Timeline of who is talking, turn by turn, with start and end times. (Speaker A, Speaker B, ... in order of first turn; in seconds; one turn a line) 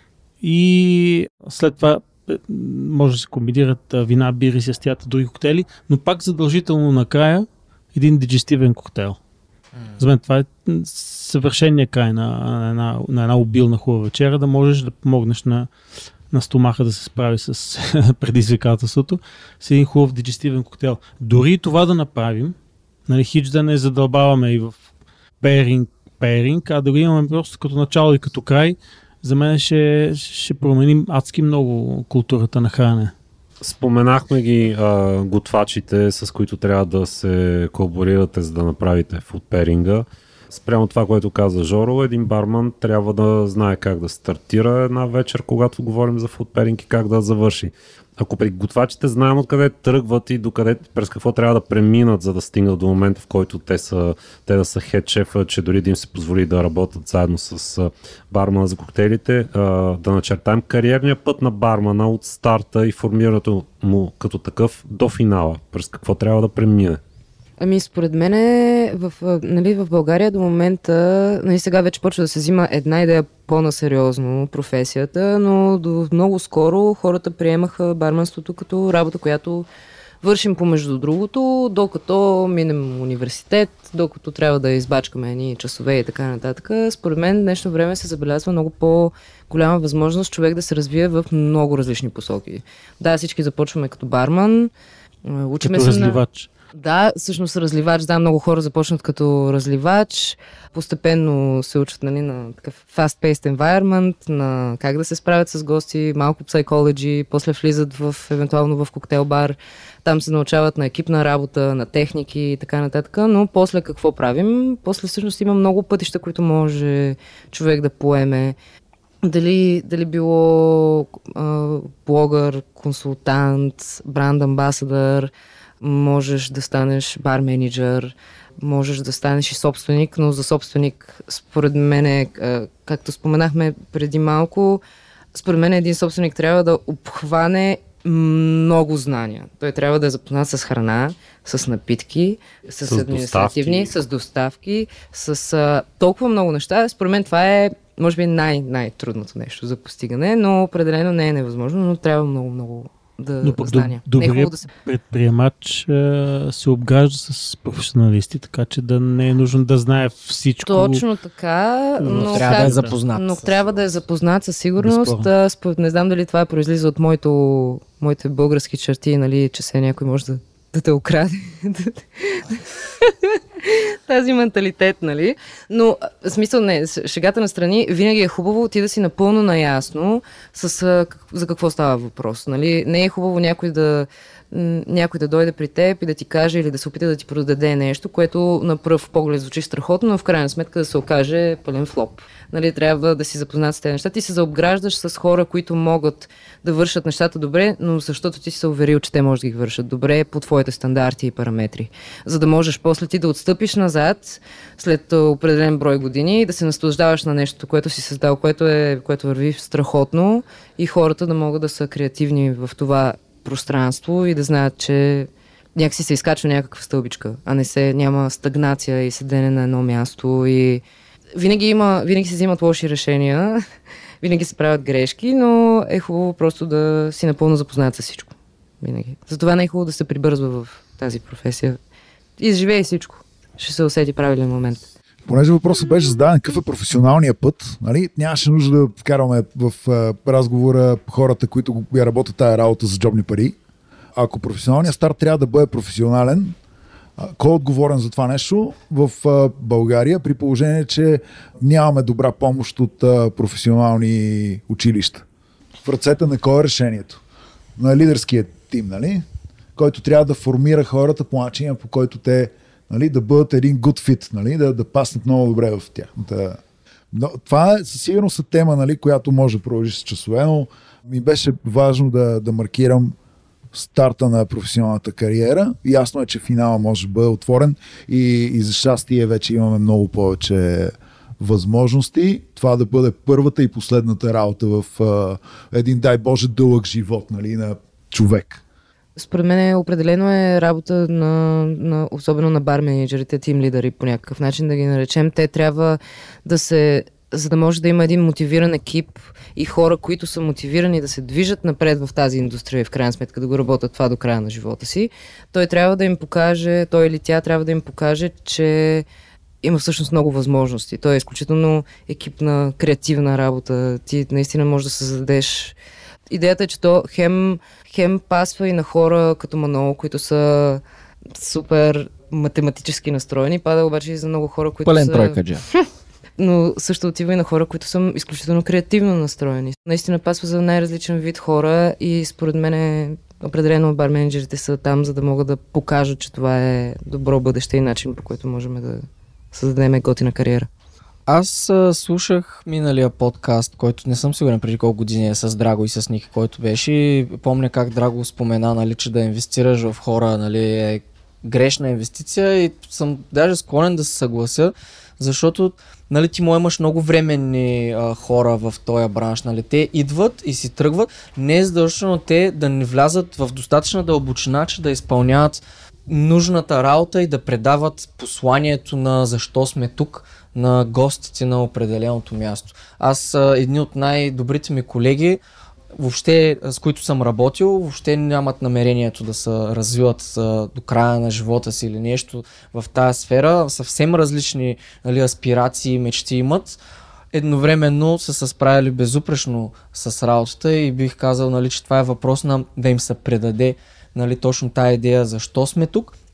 Speaker A: 0.4-9.2
Speaker A: 10.0-15.7
Speaker A: 16.3-22.6
Speaker A: 23.1-24.8
Speaker A: 25.4-33.1
Speaker B: 33.6-67.0
Speaker C: 67.6-79.7
Speaker C: 80.2-94.7
Speaker C: 95.3-96.2
Speaker A: 95.6-96.5
Speaker C: 96.8-118.6
Speaker C: 119.2-134.8
Speaker C: 135.3-154.7
Speaker B: 142.9-143.9
Speaker A: 153.4-161.0
Speaker C: 160.6-220.8
Speaker A: 162.0-163.0
Speaker D: 162.1-163.7
Speaker A: 164.8-165.3
Speaker C: 221.4-223.6
Speaker C: 224.2-231.8
Speaker C: 232.4-234.8
Speaker E: 235.3-243.6
Speaker E: 244.2-246.6
Speaker E: 247.2-255.2
Speaker E: 255.8-257.2
Speaker E: 257.8-259.2
Speaker E: 259.8-266.6
Speaker E: 267.1-273.1
Speaker E: 273.7-288.6
Speaker C: 289.2-309.1
Speaker C: 309.6-315.8
Speaker C: 316.3-320.8
Speaker C: 321.4-325.9
Speaker D: 324.9-325.6
Speaker C: 326.4-340.7
Speaker D: 341.3-375.4
Speaker D: 375.9-386.8
Speaker D: 387.3-396.1